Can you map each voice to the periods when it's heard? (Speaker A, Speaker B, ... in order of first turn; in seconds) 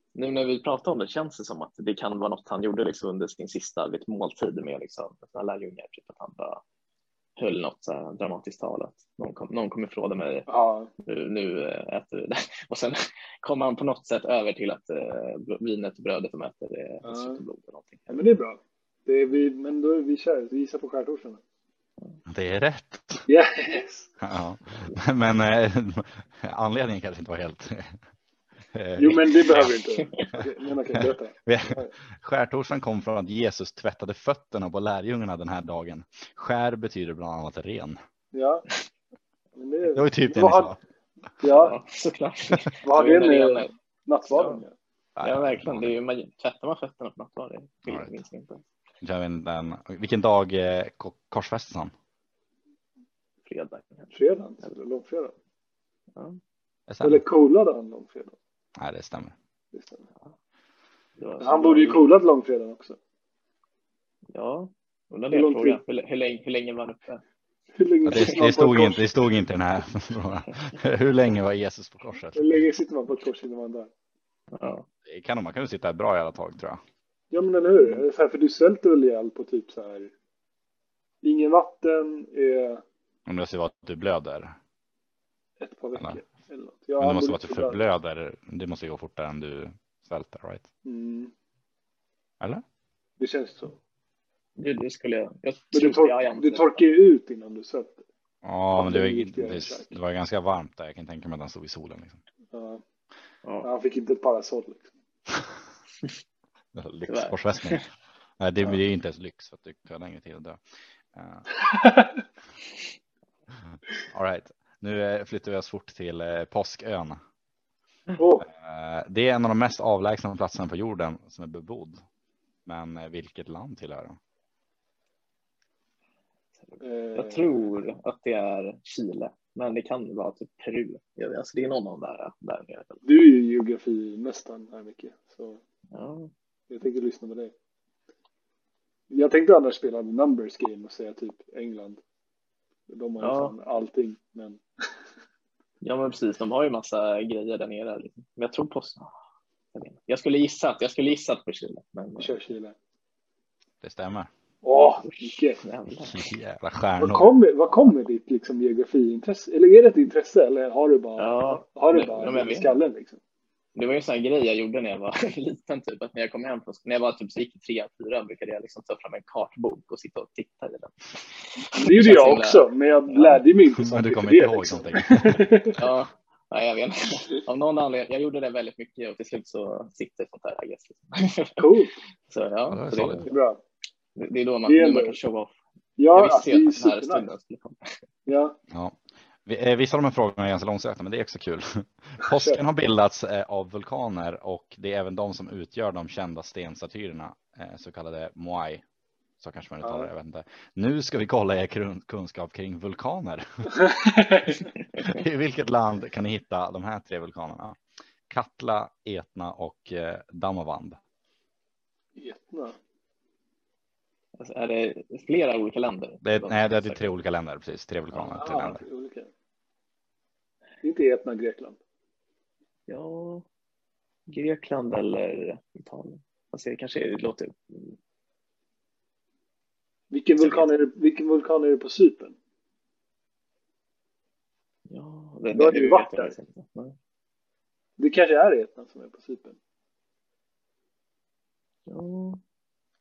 Speaker A: 0.1-6.6, 7.4-10.5, 11.0-18.2, 41.4-43.7, 44.3-44.6, 45.2-48.6, 53.5-54.1, 61.2-62.0, 64.3-67.2, 74.5-74.8, 94.6-96.8, 107.1-107.8, 126.6-133.0, 135.9-136.3, 143.2-143.5, 145.8-149.1, 149.7-152.4, 155.0-156.3, 161.2-162.8, 163.8-173.4, 175.8-181.7, 182.3-183.3, 184.2-185.5, 186.1-187.9, 214.4-217.0, 222.9-223.4, 224.3-227.9, 230.4-230.7, 234.9-236.9, 241.9-242.4
Speaker B: 10.5-10.9, 17.0-17.4, 18.1-21.4, 23.3-24.1, 29.0-31.9, 38.3-38.6, 39.5-40.7, 41.4-41.8, 42.8-44.7, 54.1-55.3, 57.0-58.4, 59.7-60.1, 61.4-63.0, 65.3-65.8, 67.7-69.1, 72.3-73.9, 77.3-80.1, 81.2-82.8, 85.6-87.8, 90.8-91.3, 93.2-93.8, 95.7-98.0, 98.7-99.9, 102.5-102.8, 103.6-104.9, 111.6-112.2, 118.2-118.5, 126.8-127.5, 133.0-135.6, 136.7-137.5, 139.1-142.0, 142.9-144.6, 152.2-152.8, 154.6-155.6, 157.0-163.2, 171.7-175.8, 181.6-181.9, 183.3-183.6, 184.7-185.2, 186.0-187.2, 188.2-188.6, 192.2-192.6, 199.8-200.1, 203.9-204.5, 212.2-212.8, 218.1-219.3, 220.8-221.8, 230.1-232.3, 235.5-236.3, 238.0-239.6
Speaker C: 22.3-23.2, 24.2-28.0, 28.7-29.7, 31.0-38.0, 39.9-40.8, 45.1-46.0, 47.9-48.1, 49.0-51.9, 56.9-57.2, 58.8-59.3, 68.0-72.5, 75.0-76.8, 83.3-84.5, 87.0-90.7, 98.4-102.2, 106.7-107.8, 108.4-110.6, 111.1-111.5, 113.7-117.2, 118.4-122.0, 122.7-124.2, 153.8-154.3, 156.0-157.4, 173.8-175.4, 182.7-183.3, 188.7-198.8, 199.4-203.7, 205.0-211.0, 216.2-218.8